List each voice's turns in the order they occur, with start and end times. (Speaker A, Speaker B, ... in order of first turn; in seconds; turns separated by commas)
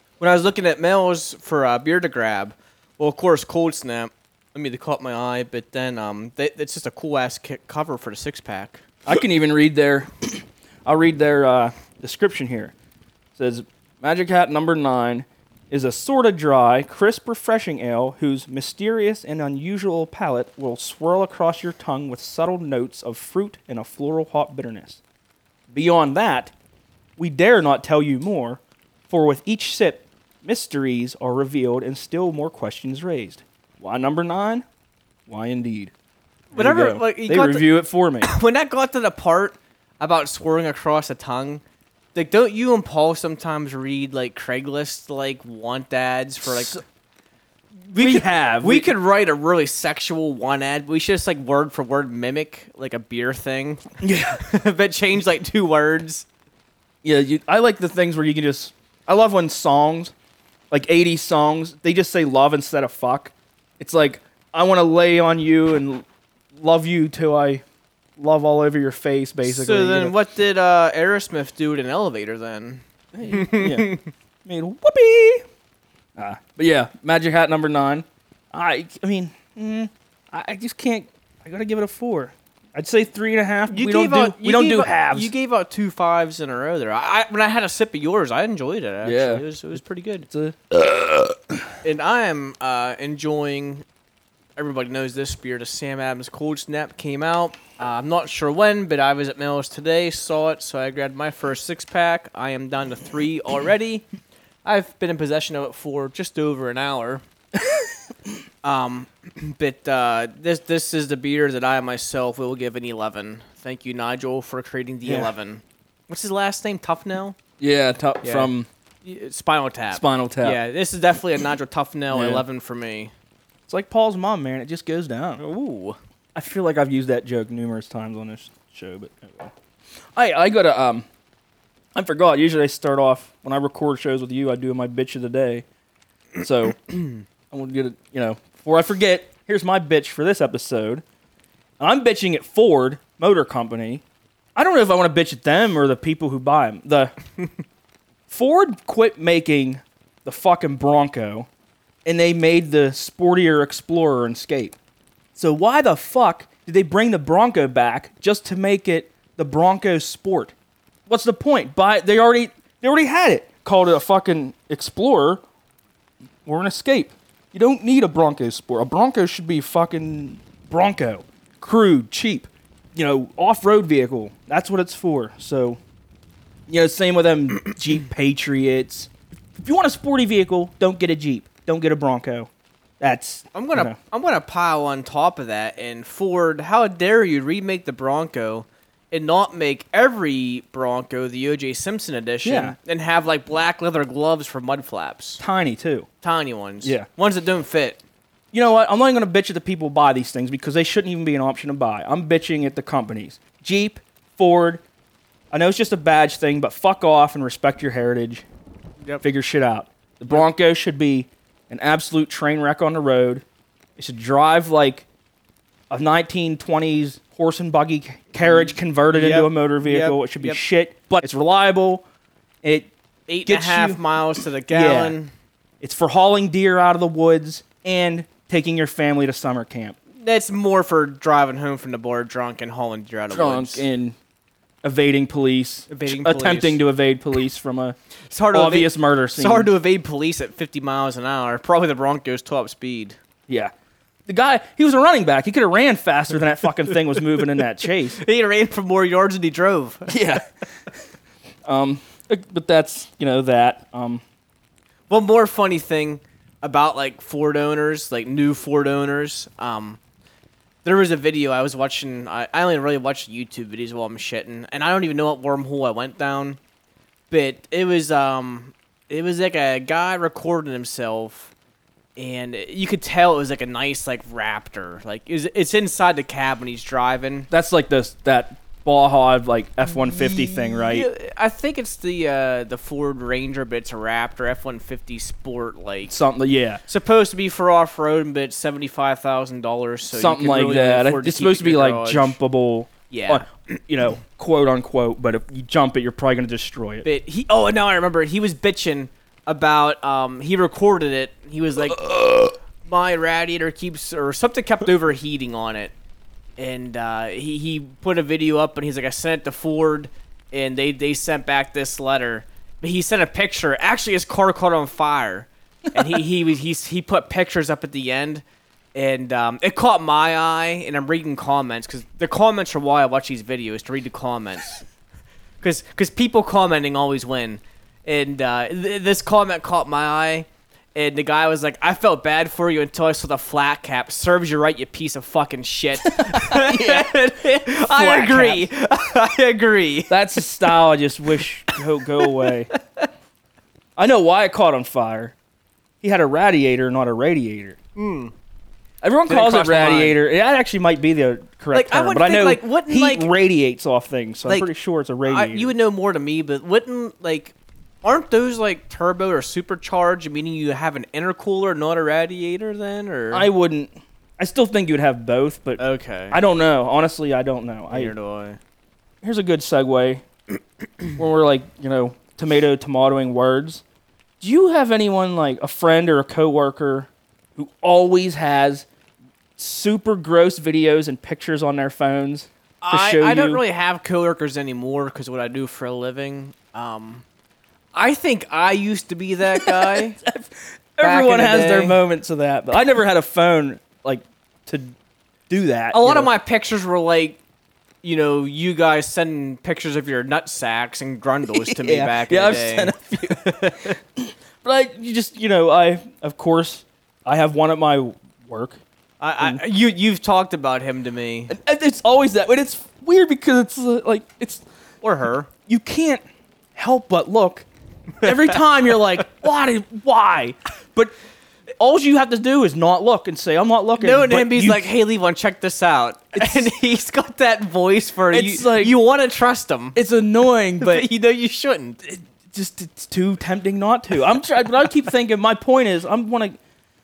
Speaker A: 0.2-8.8, Speaker B: 9.1-12.7, Speaker B: 13.3-25.0, Speaker B: 25.7-26.5, Speaker B: 27.2-34.6, Speaker B: 35.3-35.9, Speaker B: 36.5-38.3, Speaker A: 36.5-41.6, Speaker A: 42.1-46.8, Speaker B: 46.5-46.8, Speaker A: 47.9-56.2, Speaker B: 48.0-48.9, Speaker B: 54.0-54.4, Speaker B: 57.0-60.1, Speaker B: 60.7-67.6, Speaker B: 68.2-70.2, Speaker A: 69.4-74.1, Speaker B: 73.1-75.4, Speaker B: 76.2-85.3, Speaker A: 83.7-90.3, Speaker B: 89.0-91.7, Speaker A: 91.8-93.8, Speaker A: 94.5-104.0, Speaker A: 104.6-107.2, Speaker A: 108.6-117.4, Speaker B: 115.0-115.3, Speaker B: 117.6-118.7, Speaker A: 118.2-118.5, Speaker A: 119.0-123.1, Speaker B: 119.9-120.6, Speaker B: 122.1-122.4, Speaker B: 123.7-125.5, Speaker A: 125.4-126.0, Speaker B: 126.3-129.5, Speaker B: 130.1-131.1, Speaker B: 131.9-135.6, Speaker B: 136.4-141.0, Speaker B: 141.8-144.0, Speaker B: 144.6-147.2, Speaker B: 148.3-151.5, Speaker B: 152.0-154.8, Speaker B: 155.3-160.5, Speaker B: 161.1-165.4, Speaker B: 166.4-175.8, Speaker B: 176.7-182.5, Speaker B: 183.0-184.0, Speaker A: 183.5-195.4, Speaker B: 192.4-192.8, Speaker B: 195.4-196.1, Speaker A: 196.2-198.0, Speaker B: 196.8-197.1, Speaker B: 198.5-204.8, Speaker B: 205.5-208.4, Speaker B: 209.2-213.4, Speaker B: 214.0-215.1, Speaker B: 215.9-222.0, Speaker A: 218.4-220.6, Speaker B: 222.6-222.9, Speaker A: 223.3-225.3, Speaker B: 223.4-224.0, Speaker B: 224.7-225.2, Speaker B: 225.8-229.9, Speaker A: 230.2-233.8, Speaker B: 233.3-234.2, Speaker B: 234.8-238.0, Speaker A: 235.9-236.8, Speaker A: 238.3-243.2, Speaker B: 238.5-239.7, Speaker B: 244.3-248.2, Speaker A: 248.2-250.1, Speaker B: 250.1-250.4, Speaker B: 251.6-254.2, Speaker A: 255.1-260.0, Speaker A: 260.8-266.6, Speaker A: 267.3-271.5, Speaker A: 272.1-277.5, Speaker B: 277.5-281.1, Speaker A: 279.9-286.1, Speaker B: 286.1-286.8, Speaker A: 286.9-292.4, Speaker B: 290.1-297.1, Speaker A: 293.1-293.5, Speaker A: 297.0-302.3, Speaker A: 302.8-305.9, Speaker A: 306.6-324.8, Speaker A: 325.6-340.5, Speaker B: 336.0-338.7, Speaker B: 340.1-342.7, Speaker A: 341.4-343.1, Speaker B: 344.0-345.3, Speaker B: 346.0-347.8, Speaker A: 347.9-348.3, Speaker B: 349.0-355.7, Speaker A: 349.3-350.2, Speaker A: 351.7-353.3, Speaker A: 355.2-363.5, Speaker B: 363.3-368.1, Speaker A: 365.8-366.4, Speaker A: 367.9-368.6, Speaker B: 369.2-370.2, Speaker B: 371.1-373.8, Speaker B: 374.4-378.9, Speaker B: 379.6-383.6, Speaker A: 382.8-387.2, Speaker A: 387.9-390.2, Speaker B: 389.5-394.9, Speaker A: 391.0-392.0, Speaker B: 395.5-396.3, Speaker A: 395.9-397.4, Speaker A: 398.0-403.9, Speaker B: 401.6-408.8, Speaker A: 409.2-411.5, Speaker B: 411.5-414.6, Speaker A: 415.0-415.5, Speaker B: 415.7-416.2, Speaker B: 416.7-417.6, Speaker B: 418.2-421.1, Speaker A: 418.2-418.6, Speaker B: 421.8-424.9, Speaker A: 424.0-430.0, Speaker B: 426.4-426.7, Speaker B: 428.3-428.9, Speaker B: 429.9-431.1, Speaker A: 430.8-432.0, Speaker B: 432.0-436.6